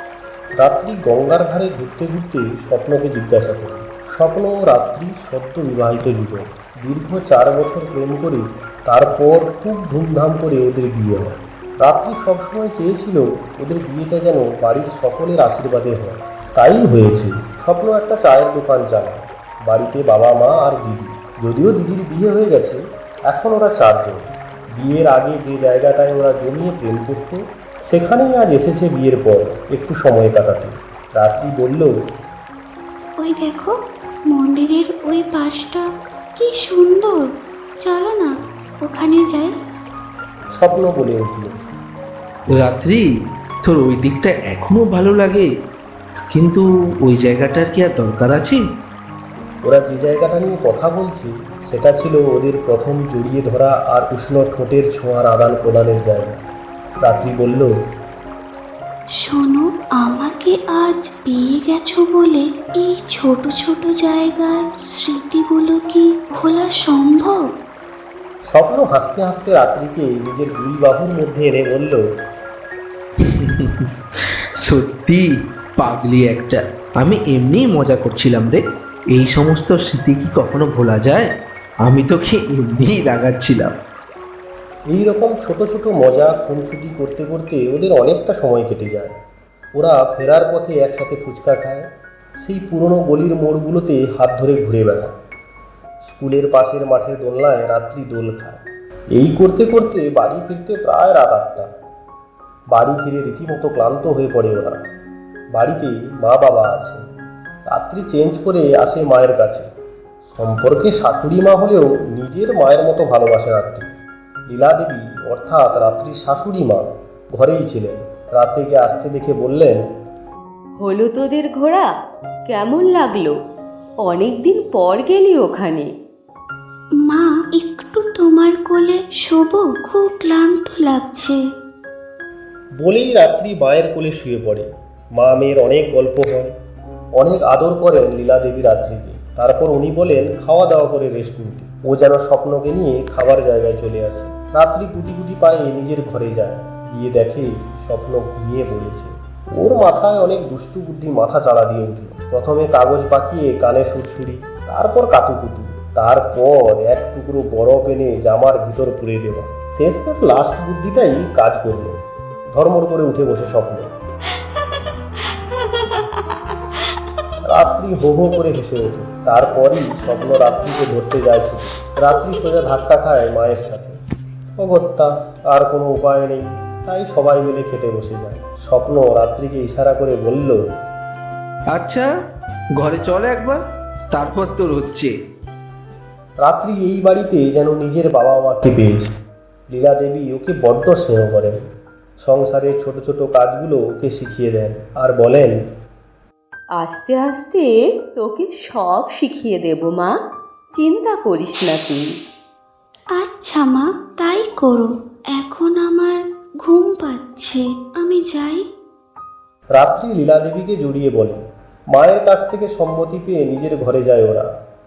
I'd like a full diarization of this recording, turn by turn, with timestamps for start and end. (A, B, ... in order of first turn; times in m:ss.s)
0:00.6-0:31.9 A
0:33.2-0:33.8 B
0:34.3-0:39.5 B
0:40.6-0:41.6 A
0:42.6-0:43.0 C
0:43.6-0:45.5 C
0:46.3-0:48.6 C
0:49.6-0:56.4 A
0:57.0-0:57.7 A
0:59.2-1:07.4 B
1:08.5-1:12.0 A
1:13.2-1:21.3 C
1:21.8-1:23.7 C
1:24.9-1:29.2 A
1:29.8-1:35.1 A
1:36.0-1:38.6 A
1:39.1-1:41.7 A
1:42.7-1:44.8 A
1:45.5-1:47.0 A
1:47.7-1:49.7 A
1:50.3-1:53.9 A
1:54.5-1:59.8 A
2:00.8-2:01.9 D
2:02.5-2:03.4 D
2:04.0-2:05.9 D
2:07.0-2:11.4 B
2:12.8-2:16.5 A
2:17.2-2:42.0 A
2:42.5-2:43.9 A
2:47.4-2:54.0 A
2:54.6-3:00.7 A
3:01.7-3:02.1 C
3:02.8-3:05.1 C
3:06.4-3:09.1 A
3:09.7-3:11.6 A
3:12.2-3:15.6 A
3:16.8-3:20.1 D
3:20.7-3:22.0 D
3:23.1-3:28.6 B
3:29.8-3:31.4 A
3:31.9-3:34.5 A